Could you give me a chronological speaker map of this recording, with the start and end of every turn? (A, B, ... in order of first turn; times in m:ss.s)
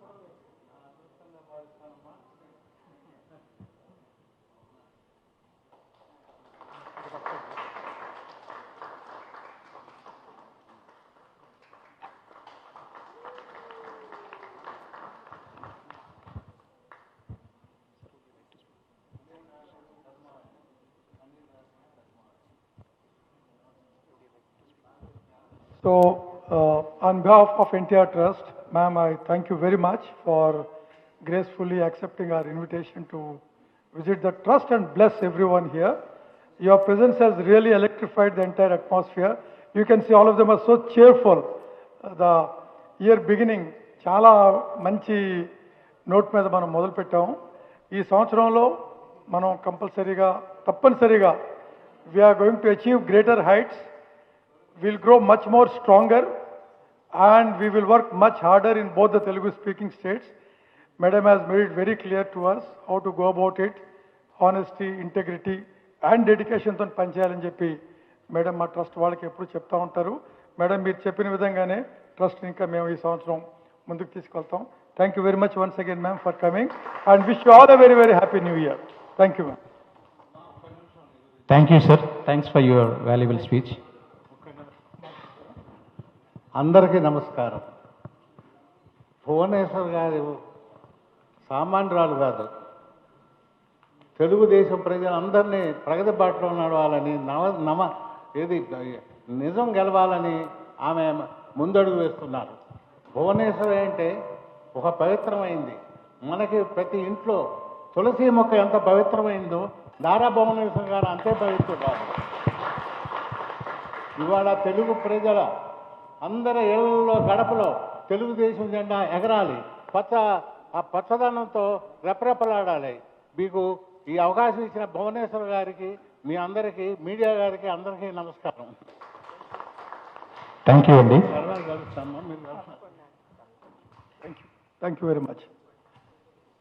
0:25.8-0:30.6 A
0:31.2-0:33.4 A
0:33.9-0:36.0 A
0:36.6-0:41.5 A
0:42.0-0:45.5 A
0:46.1-0:47.4 A
0:47.9-0:48.8 A
0:49.3-0:51.4 A
0:52.1-0:53.9 A
0:54.8-0:56.3 A
0:57.1-1:00.3 A
1:01.0-1:03.8 A
1:04.4-1:07.8 A
1:08.3-1:19.6 A
1:21.5-1:23.8 B
1:26.6-1:27.6 C
1:29.2-1:30.3 C
1:31.5-1:32.5 C
1:34.2-1:42.5 C
1:43.2-1:44.1 C
1:44.7-1:45.8 C
1:46.3-1:47.4 C
1:47.9-1:52.2 C
1:54.2-1:55.4 C
1:56.2-2:00.2 C
2:00.7-2:08.7 C
2:10.6-2:11.3 B
2:11.2-2:12.8 C
2:14.2-2:15.5 A